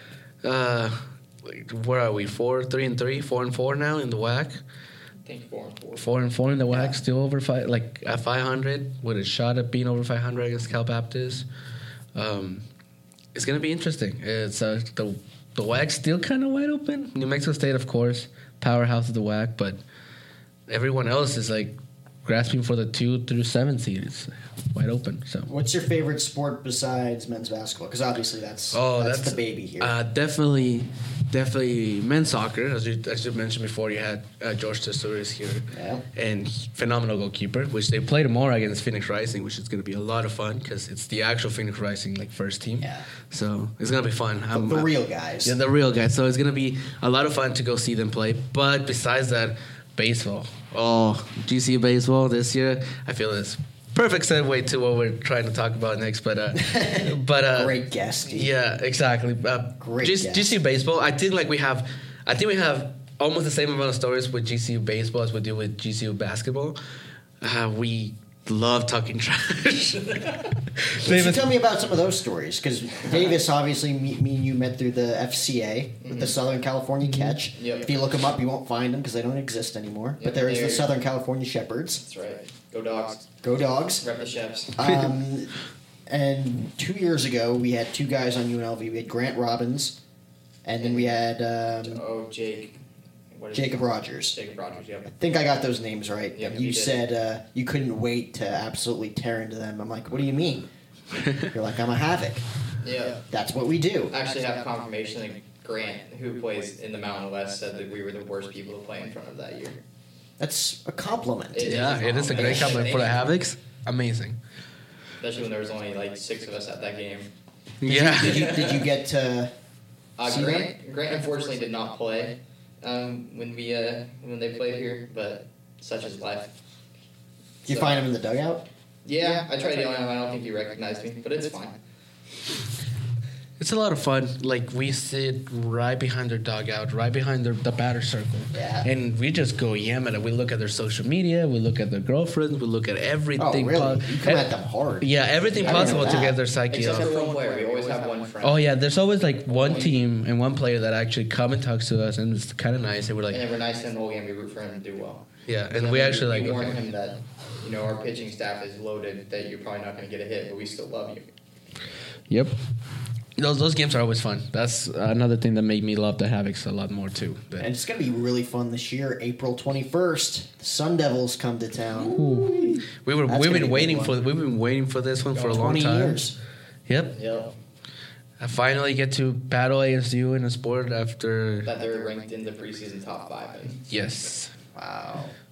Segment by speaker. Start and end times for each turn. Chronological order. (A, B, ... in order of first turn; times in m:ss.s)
0:00.4-0:04.6 A
0:05.2-0:06.1 B
0:06.0-0:11.5 A
0:06.7-0:07.0 C
0:12.2-0:12.6 A
0:13.3-0:19.8 A
0:20.7-0:25.5 A
0:25.5-0:29.9 C
0:28.7-0:44.9 A
0:35.7-0:36.0 C
0:42.8-0:43.1 C
0:44.5-0:45.6 C
0:45.4-1:06.8 A
0:56.6-0:58.5 C
0:59.8-1:00.6 C
1:07.4-1:11.5 A
1:11.0-1:22.0 C
1:16.0-1:16.4 B
1:17.0-1:17.4 A
1:17.6-1:17.9 B
1:20.2-1:20.9 B
1:22.0-1:23.4 B
1:23.4-1:24.0 C
1:24.0-1:24.8 B
1:24.8-1:30.0 C
1:30.6-1:32.0 C
1:30.8-1:31.2 B
1:31.8-1:32.8 B
1:33.3-1:35.2 B
1:33.5-1:34.4 C
1:35.1-1:40.7 C
1:36.3-1:37.0 B
1:41.2-1:41.5 A
1:41.4-1:42.4 C
1:42.8-1:43.2 B
1:43.3-1:44.2 C
1:44.1-1:49.8 B
1:50.4-1:52.8 C
1:51.5-1:53.4 B
1:51.6-1:54.4 A
1:55.2-1:57.3 B
1:57.8-1:58.7 A
1:57.8-1:59.5 C
1:58.2-1:58.8 B
2:00.2-2:06.6 B
2:00.2-2:00.7 C
2:07.6-2:08.1 B
2:07.6-2:08.7 C
2:09.0-2:11.8 B
2:13.6-2:24.5 A
2:18.5-2:18.9 C
2:23.4-2:26.4 C
2:25.0-2:27.2 A
2:25.6-2:28.7 B
2:28.4-2:33.4 A
2:29.5-2:30.0 B
2:33.3-2:41.3 B
2:35.5-2:36.8 A
2:42.3-2:42.6 A
2:43.4-2:47.7 A
2:47.6-2:54.2 C
2:52.0-2:56.3 A
2:55.4-2:55.7 B
2:55.5-2:56.4 C
2:56.9-2:57.2 A
2:57.1-2:57.6 B
2:58.4-3:01.7 A
3:01.6-3:03.8 B
3:03.9-3:04.5 A
3:04.8-3:05.3 C